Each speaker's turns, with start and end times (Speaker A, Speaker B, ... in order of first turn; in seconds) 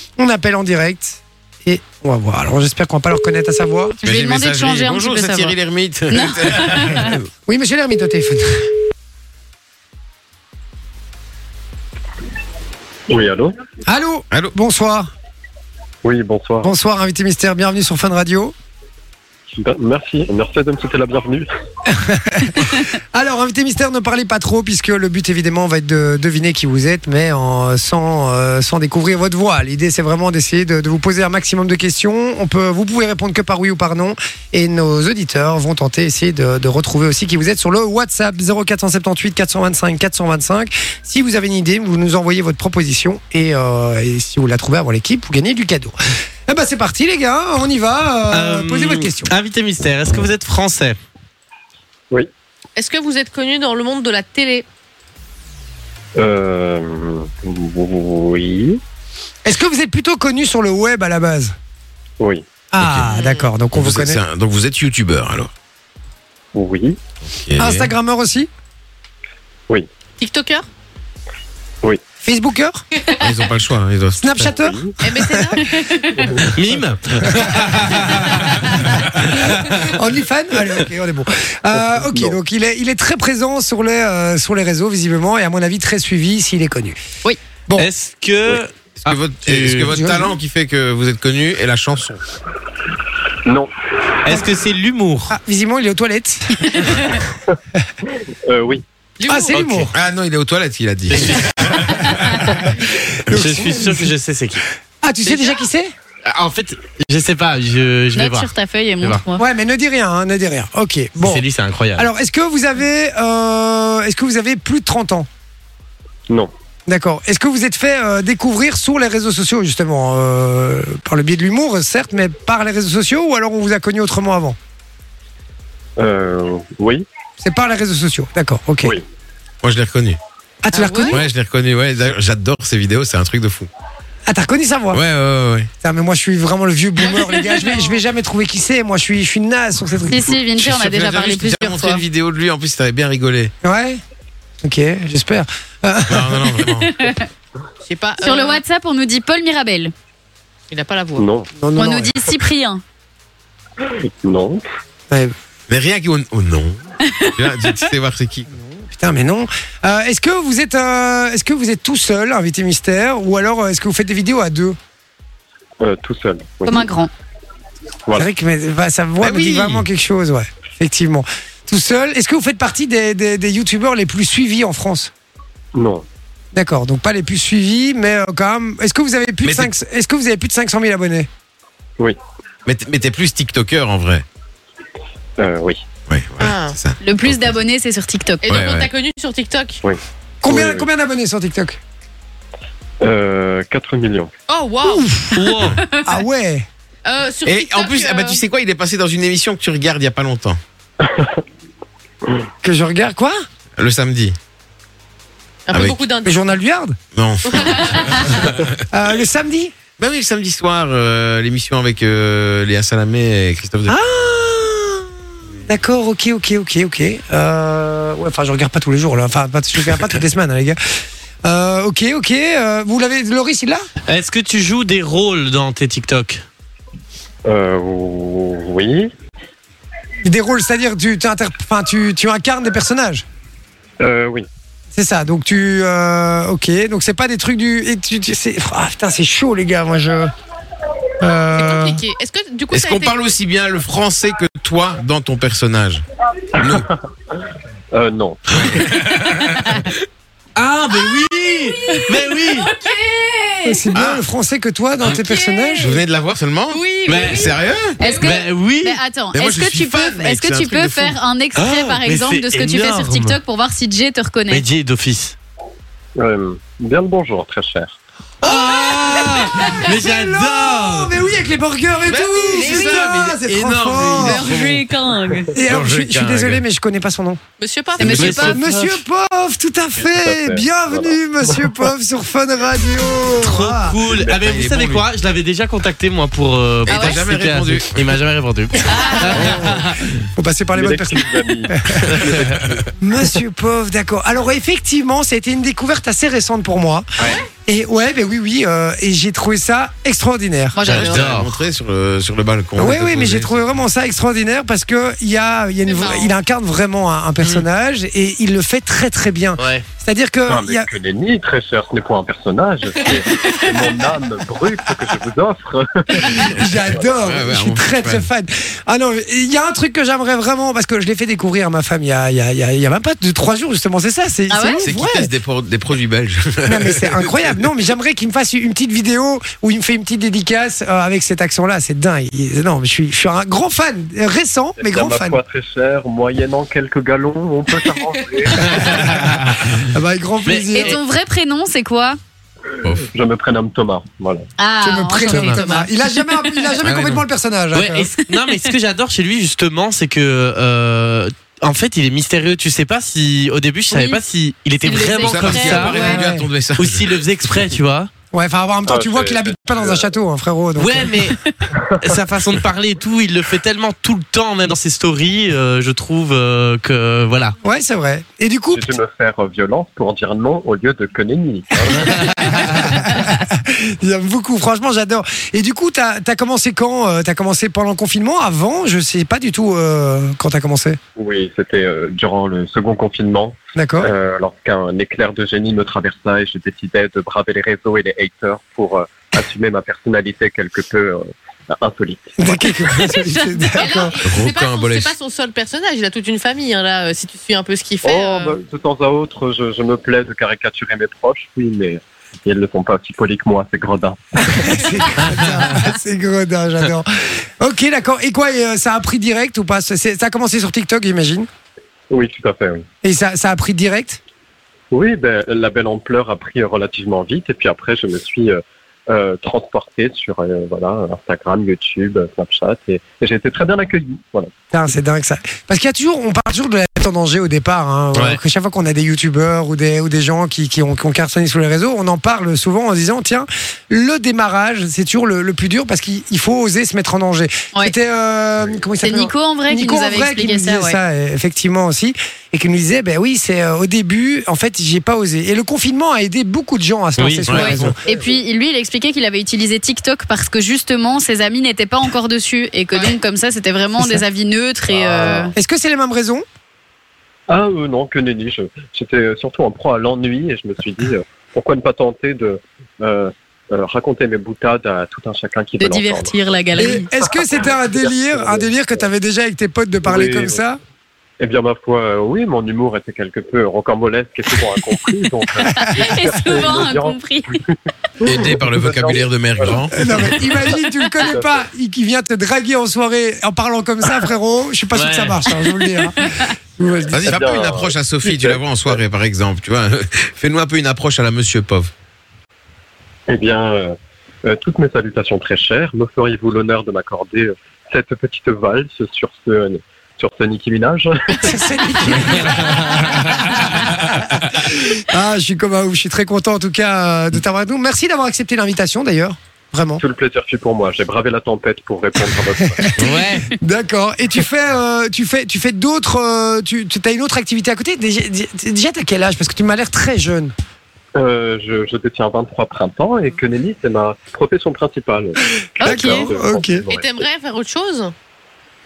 Speaker A: 0.2-4.0, 7.5-8.7, 13.9-15.1, 16.6-18.5, 21.9-46.0, 46.5-49.3, 59.5-61.5, 62.7-64.2, 67.6-68.5, 72.2-72.8, 74.2-75.6, 79.3-87.0, 89.9-90.3, 95.3-97.8, 99.2-100.0, 102.1-104.1, 105.0-105.9, 109.4-115.3, 116.9-124.6, 127.4-129.0, 130.6-131.3, 134.3-135.0, 135.8-140.4, 143.6-144.0, 144.6-146.5, 151.6-152.1, 158.5-164.8, 168.1-175.1, 176.5-181.3, 190.4-191.8, 194.8-195.3, 196.0-196.7, 202.6-203.4, 206.2-207.0, 208.9-209.7, 213.9-215.1, 215.7-220.8, 221.4-223.9, 230.2-233.2, 234.9-240.3, 241.2-242.0, 253.6-256.0, 268.4-274.5, 275.5-277.4, 278.2-284.0, 288.9-289.8, 290.4-292.2, 293.0-297.1, 297.7-300.8, 302.8-310.9, 316.2-325.3, 326.7-335.4, 338.8-341.0, 344.8-348.1, 355.9-356.5, 358.3-361.3, 367.6-369.0, 371.9-381.0, 383.8-384.1, 392.4-394.2, 404.4-411.5, 413.0-414.2, 424.7-448.0, 454.0-454.2, 455.5-456.4, 466.8-470.8, 479.8-486.2, 486.8-487.4, 501.4-510.0, 512.6-520.5, 525.8-526.8
Speaker B: 4.0-5.6, 6.1-7.2, 75.6-76.3, 108.2-109.4, 130.8-131.1, 140.1-142.0, 146.7-147.3, 148.2-149.9, 151.8-152.8, 166.7-167.1, 187.0-188.6, 258.0-264.6, 272.6-273.2, 274.1-275.6, 278.0-278.6, 286.9-287.3, 288.9-289.4, 300.8-301.4, 324.5-324.8, 340.7-342.2, 344.6-346.7, 353.9-354.2, 354.8-356.2, 393.7-393.9, 439.0-441.0, 447.5-455.5, 465.8-467.1, 475.7-477.6, 486.2-486.5, 502.1-502.5, 525.8-526.3
Speaker C: 4.0-7.2, 62.8-63.1, 63.7-65.5, 67.2-67.9, 73.1-74.4, 89.0-92.2, 99.9-101.3, 101.9-102.5, 129.6-130.2, 131.1-133.7, 134.9-135.7, 140.5-143.5, 146.1-146.9, 155.7-158.5, 169.2-169.9, 179.4-179.7, 182.7-184.2, 186.1-187.6, 188.5-188.9, 197.4-200.6, 203.8-204.4, 205.7-206.0, 207.2-208.7, 210.0-214.0, 242.7-246.1, 246.6-246.9, 248.5-249.1, 253.9-254.2, 255.8-258.0, 259.3-261.2, 272.1-274.8, 275.7-276.6, 284.4-285.1, 286.9-288.2, 300.9-303.7, 317.2-318.3, 324.8-327.1, 346.8-347.3, 355.2-357.1, 394.2-395.2, 447.5-447.7, 478.2-480.1, 487.1-491.9
Speaker D: 13.1-13.6, 16.0-16.7, 19.5-21.5, 56.2-58.8, 66.5-67.0, 74.4-75.0, 76.2-76.5, 81.8-82.4, 98.4-98.8, 126.0-127.0, 151.2-151.5, 153.8-154.6, 165.8-166.9, 175.7-176.0, 185.4-185.8, 189.8-190.9, 193.0-194.3, 201.0-201.4, 227.4-229.1, 234.0-234.4, 246.6-247.0, 247.9-248.6, 266.2-268.0, 280.0-281.9, 284.0-284.5, 290.8-293.4, 310.5-317.2, 334.8-339.3, 343.0-344.4, 358.9-360.1, 361.7-362.0, 368.7-372.4, 381.2-392.5, 398.0-404.9, 412.1-412.8, 414.9-424.5, 454.9-455.5, 457.5-468.8, 470.0-470.6, 471.4-477.7, 478.2-481.7, 487.2-489.0, 493.3-501.6, 510.0-513.2, 521.1-527.2
Speaker E: 48.3-51.0, 76.5-79.9, 87.8-90.1, 94.2-95.4, 99.5-99.9, 101.1-102.0, 103.3-104.7, 106.2-108.5, 111.2-112.1, 195.3-195.8, 224.1-226.4, 248.7-249.4, 250.6-252.7, 257.1-257.5, 258.1-259.0, 261.6-263.4, 264.5-265.4, 268.4-271.3, 274.0-274.6, 278.0-279.0, 283.4-290.1, 292.0-292.6, 300.8-301.6, 309.6-309.9, 338.9-339.6, 340.4-341.0, 347.7-356.0, 356.8-358.1, 360.8-361.4, 362.0-367.6, 447.2-447.9, 484.9-485.4, 513.0-513.5
Speaker F: 52.8-54.6, 63.1-63.4, 70.2-70.7, 75.0-75.6, 99.2-99.6, 105.3-105.6, 147.8-148.6, 150.7-151.3, 186.4-186.8, 188.4-189.8, 194.5-195.2, 197.1-198.4, 205.7-206.6, 207.5-208.5, 241.5-243.2, 252.6-253.6, 255.2-256.0, 256.7-258.1, 277.6-278.4, 305.9-306.4, 393.7-398.6, 526.9-528.1